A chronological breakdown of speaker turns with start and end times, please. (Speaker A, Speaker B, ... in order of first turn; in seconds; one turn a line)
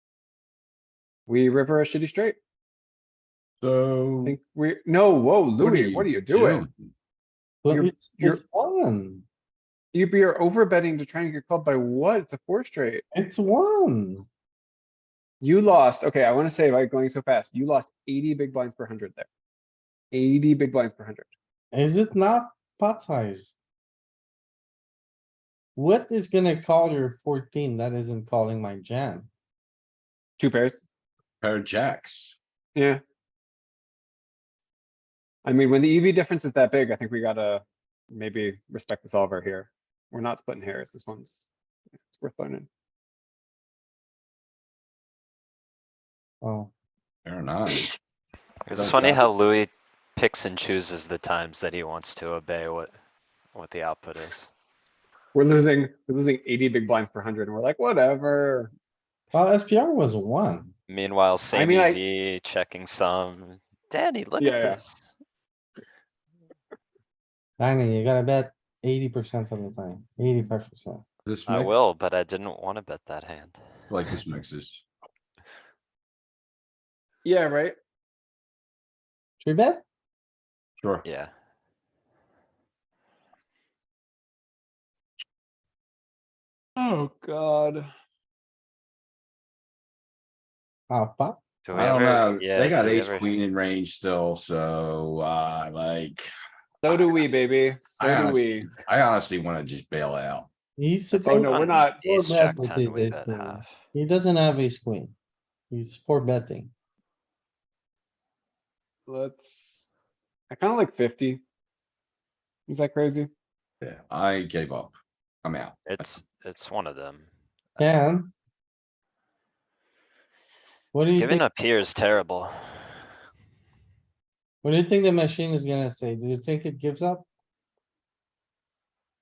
Speaker A: 1.3-2.4
Speaker B: 3.6-4.4
Speaker A: 4.2-6.6
Speaker B: 5.6-6.9
Speaker C: 7.6-9.2
Speaker A: 7.7-8.4
Speaker A: 9.9-13.0
Speaker C: 13.1-14.2
Speaker A: 15.4-19.3
Speaker A: 20.1-21.3
Speaker C: 21.7-23.6
Speaker C: 25.8-29.3
Speaker A: 30.4-30.8
Speaker B: 31.4-32.4
Speaker A: 32.7-33.0
Speaker A: 35.4-41.5
Speaker A: 42.1-42.7
Speaker C: 46.4-46.7
Speaker B: 47.2-47.9
Speaker D: 48.7-52.9
Speaker B: 48.7-49.3
Speaker D: 53.5-54.5
Speaker A: 55.3-58.7
Speaker C: 59.3-60.7
Speaker D: 60.9-65.1
Speaker A: 61.5-62.0
Speaker A: 64.4-64.8
Speaker C: 67.6-71.0
Speaker B: 71.2-71.7
Speaker D: 71.5-73.6
Speaker B: 73.9-74.8
Speaker A: 77.2-77.7
Speaker C: 79.4-79.8
Speaker B: 80.8-81.0
Speaker D: 81.0-81.3
Speaker A: 86.8-87.9
Speaker C: 90.9-91.4
Speaker D: 91.6-93.3
Speaker B: 91.7-96.3
Speaker A: 96.8-98.7
Speaker B: 98.0-100.5
Speaker C: 100.8-105.1
Speaker D: 101.1-103.7
Speaker A: 101.2-102.0
Speaker C: 105.7-106.7
Speaker A: 109.1-109.9
Speaker A: 110.5-111.4
Speaker A: 112.7-113.3
Speaker B: 113.8-116.1
Speaker D: 115.9-117.3
Speaker C: 117.8-118.3
Speaker C: 120.9-121.4
Speaker D: 121.2-123.0
Speaker C: 124.6-127.3